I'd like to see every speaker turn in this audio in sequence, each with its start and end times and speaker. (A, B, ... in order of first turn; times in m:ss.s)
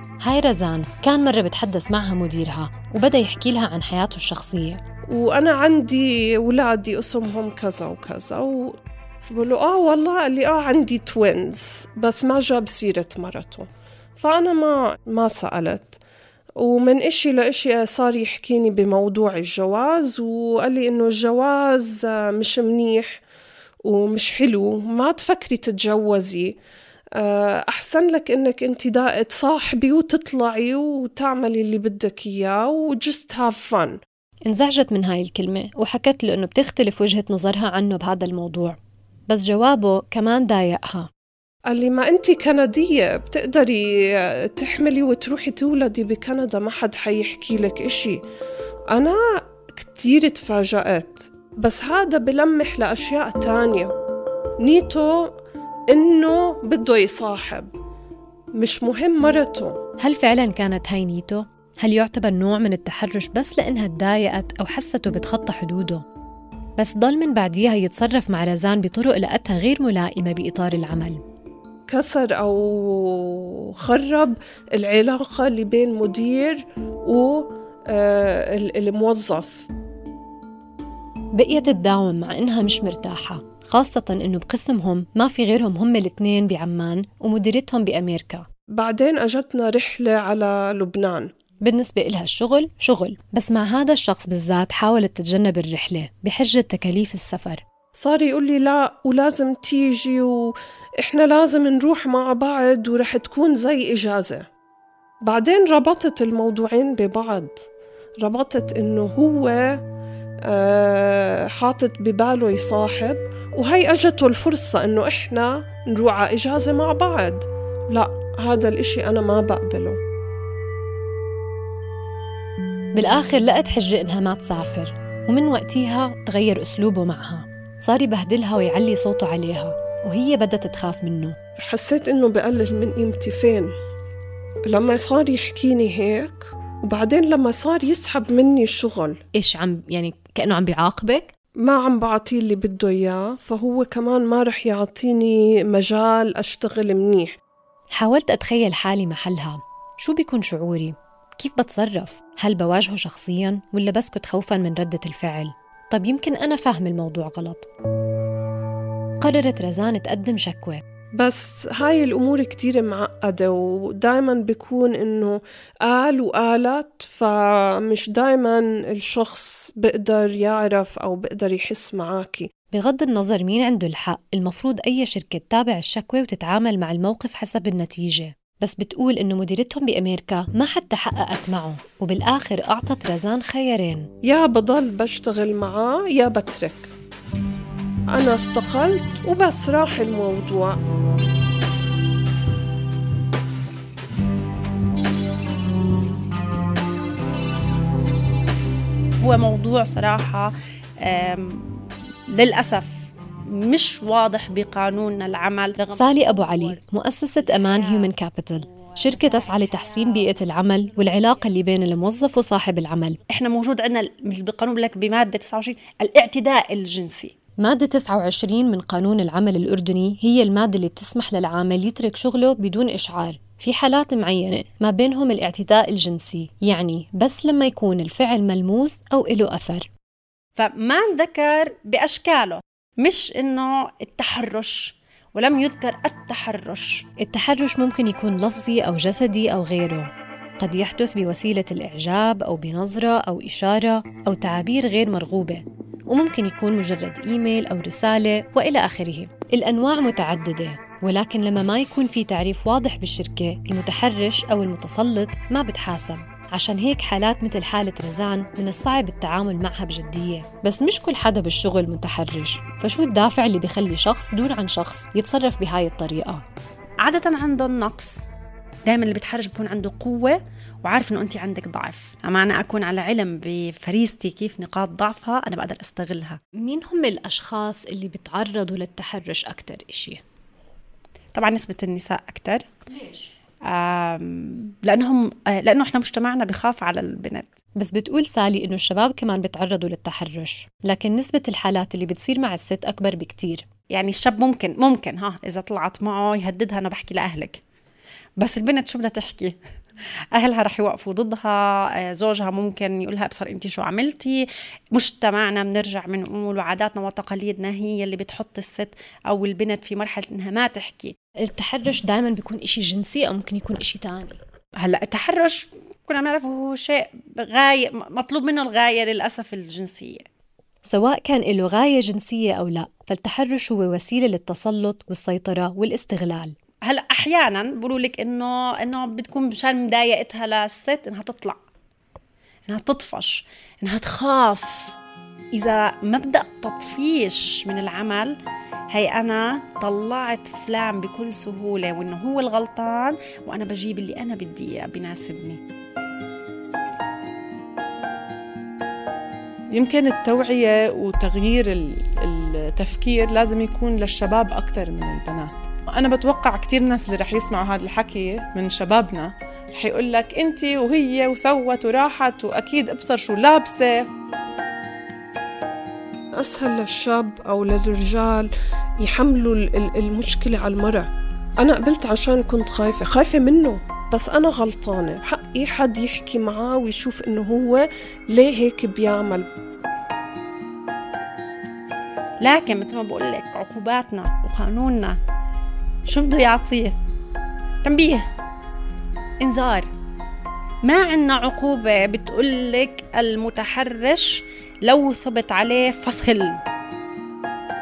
0:00.2-0:04.8 A
0:05.1-0:13.7 B
0:14.2-0:16.0 B
0:16.6-0:23.1 B
0:23.8-0:26.6 B
0:27.2-0:34.0 B
0:34.4-0:38.8 A
0:39.3-0:41.1 A
0:41.7-0:43.9 B
0:44.5-0:48.2 B
0:48.9-0:53.9 B
0:54.6-0:55.3 B
0:55.9-0:57.7 B
0:58.5-0:59.8 B
1:00.0-1:06.0 A
1:06.8-1:11.2 A
1:11.9-1:19.7 B
1:21.3-1:28.5 A
1:28.7-1:31.3 B
1:31.6-1:37.6 A
1:38.0-1:44.4 B
1:45.2-1:47.6 B
1:48.2-1:49.6 B
1:50.5-2:00.0 B
2:02.9-2:11.4 A
2:11.6-2:13.7 B
2:14.7-2:19.2 B
2:19.4-2:21.3 A
2:21.6-2:27.4 B
2:28.0-2:37.7 A
2:39.2-2:40.8 A
2:41.2-2:52.5 B
2:52.7-3:04.1 A
3:04.2-3:06.9 B
3:08.1-3:10.8 B
3:19.2-3:20.5 C
3:21.0-3:22.9 C
3:23.5-3:26.8 C
3:25.9-3:33.2 A
3:27.4-3:28.1 C
3:28.7-3:30.4 C
3:33.3-3:37.3 C
3:37.6-3:49.9 A
3:50.6-3:57.0 C
3:57.2-4:26.4 A
4:27.0-4:28.2 C
4:28.8-4:36.4 C
4:36.6-4:40.2 A
4:41.4-4:42.6 C
4:43.7-4:47.5 C
4:47.8-4:53.6 A
4:53.9-4:57.6 C
4:58.4-4:59.6 C
5:00.4-5:11.1 C
5:11.4-5:14.4 A
5:14.8-5:20.2 C
5:20.8-5:26.5 A
5:26.9-5:31.6 C
5:32.7-5:34.9 C
5:35.5-5:38.3 C
5:38.9-5:45.6 C
5:49.7-6:04.0 D
6:06.4-6:11.1 B
6:11.6-6:19.5 B
6:22.4-6:25.2 C
6:26.0-6:26.9 C
6:27.8-6:28.2 C
6:29.4-6:29.9 C
6:30.8-6:36.6 C